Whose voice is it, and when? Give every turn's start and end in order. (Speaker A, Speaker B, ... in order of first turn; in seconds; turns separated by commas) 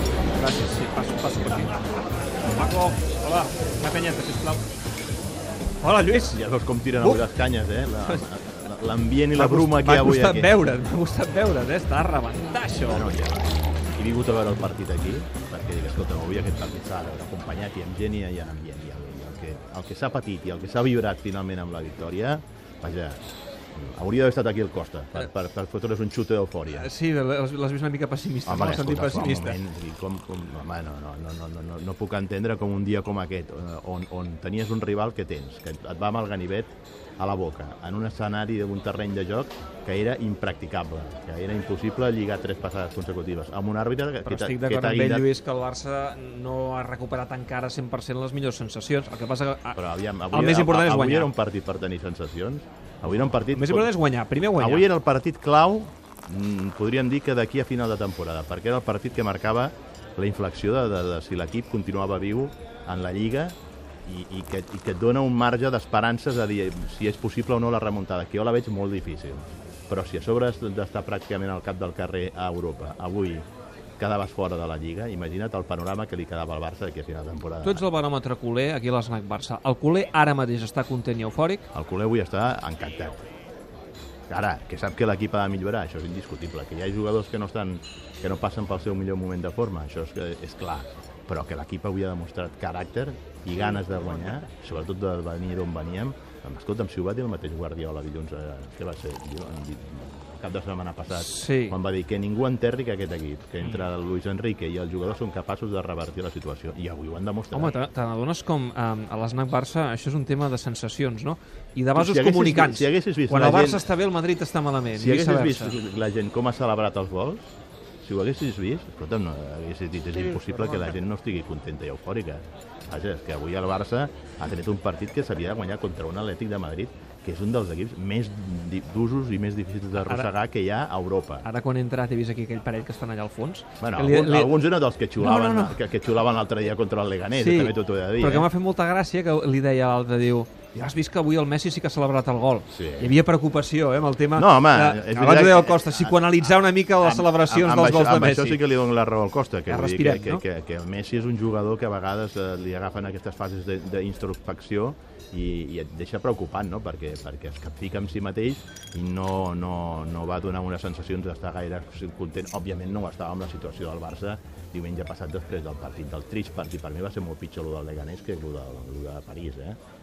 Speaker A: 0.3-1.9, Speaker A: 2.5-4.6, Speaker A: 5.8-6.4, Speaker B: 6.3-10.5, Speaker A: 7.0-7.2, Speaker A: 9.3-13.1, Speaker B: 12.8-23.2, Speaker B: 23.7-26.9, Speaker A: 26.7-29.6, Speaker B: 28.4-45.2, Speaker A: 44.2-51.3, Speaker B: 49.8-53.9, Speaker A: 53.5-54.8, Speaker B: 54.6-73.4, Speaker B: 74.0-77.8, Speaker A: 77.6-81.7, Speaker B: 81.7-83.2, Speaker B: 84.3-107.8, Speaker A: 101.1-101.8, Speaker A: 107.5-115.8, Speaker B: 111.9-113.8, Speaker B: 114.9-131.4, Speaker A: 130.0-130.3, Speaker A: 131.4-134.6, Speaker B: 133.8-138.5, Speaker A: 135.2-135.8, Speaker A: 137.3-148.6, Speaker B: 142.7-143.2, Speaker B: 144.3-169.8, Speaker A: 149.7-150.4